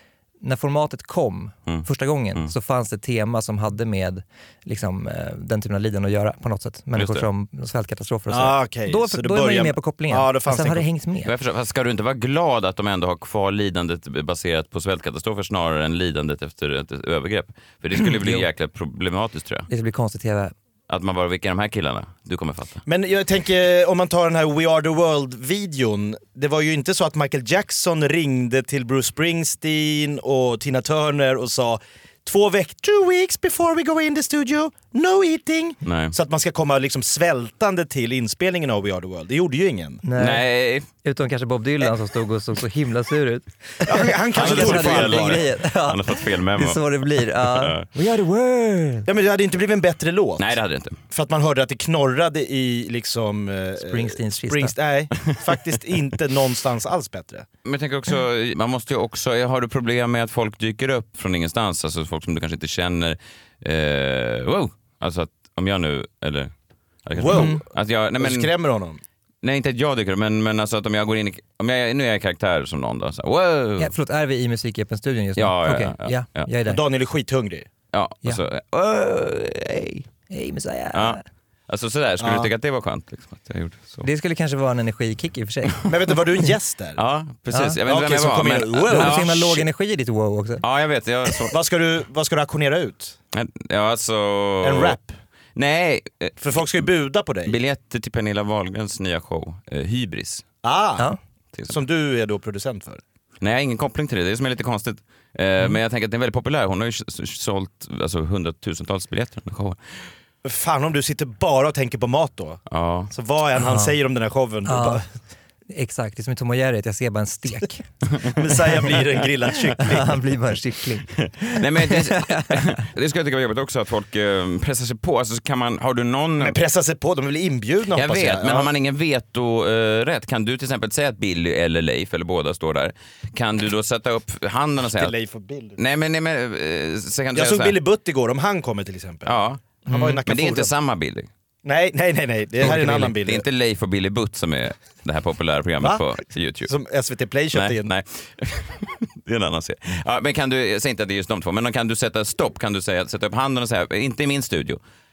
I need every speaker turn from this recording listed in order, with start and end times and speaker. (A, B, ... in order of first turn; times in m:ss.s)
0:00.4-0:11.3 A
0:01.7-0:02.5 B
0:06.9-0:07.3 B
0:08.3-0:10.8 C
0:11.2-0:19.7 B
0:18.0-0:18.4 A
0:19.7-0:20.5 A
0:20.9-0:22.8 B
0:22.8-0:40.0 C
0:35.8-0:36.1 B
0:40.0-0:49.1 A
0:40.2-0:40.9 B
0:43.8-0:45.4 C
0:44.4-0:47.9 B
0:49.0-0:50.6 C
0:50.4-0:50.9 B
0:51.1-0:57.4 C
0:53.8-0:54.7 A
0:57.6-1:06.5 B
1:07.0-1:08.5 B
1:07.2-1:07.6 C
1:07.3-1:07.6 A
1:08.2-1:09.0 C
1:09.4-1:13.9 B
1:13.8-1:16.8 A
1:15.4-1:16.5 B
1:16.6-1:17.7 C
1:17.9-1:20.1 B
1:20.3-1:21.2 A
1:20.9-1:24.1 B
1:22.2-1:22.5 C
1:24.0-1:25.8 A
1:25.8-1:27.0 C
1:27.0-1:29.6 B
1:27.5-1:27.8 A
1:27.8-1:29.4 C
1:28.9-1:30.6 A
1:30.6-1:31.6 B
1:31.5-1:33.2 C
1:33.3-1:35.0 B
1:34.6-1:35.2 C
1:35.6-1:36.4 B
1:36.4-1:37.6 C
1:37.4-1:40.4 B
1:40.6-1:41.1 C
1:41.7-1:43.0 C
1:43.4-1:49.8 B
1:50.4-1:55.0 C
1:52.7-1:53.1 B
1:53.6-1:53.9 A
1:54.6-1:55.0 A
1:55.7-1:57.8 A
1:58.3-2:00.2 C
1:59.8-2:02.6 A
2:01.2-2:06.6 B
2:06.4-2:08.7 C
2:07.9-2:15.1 B
2:14.9-2:15.8 C
2:15.8-2:17.8 B
2:17.3-2:19.3 C
2:19.2-2:21.3 B
2:19.8-2:20.7 C
2:19.9-2:20.2 A
2:21.6-2:23.4 C
2:22.6-2:26.7 B
2:26.7-2:27.9 C
2:27.5-2:34.8 B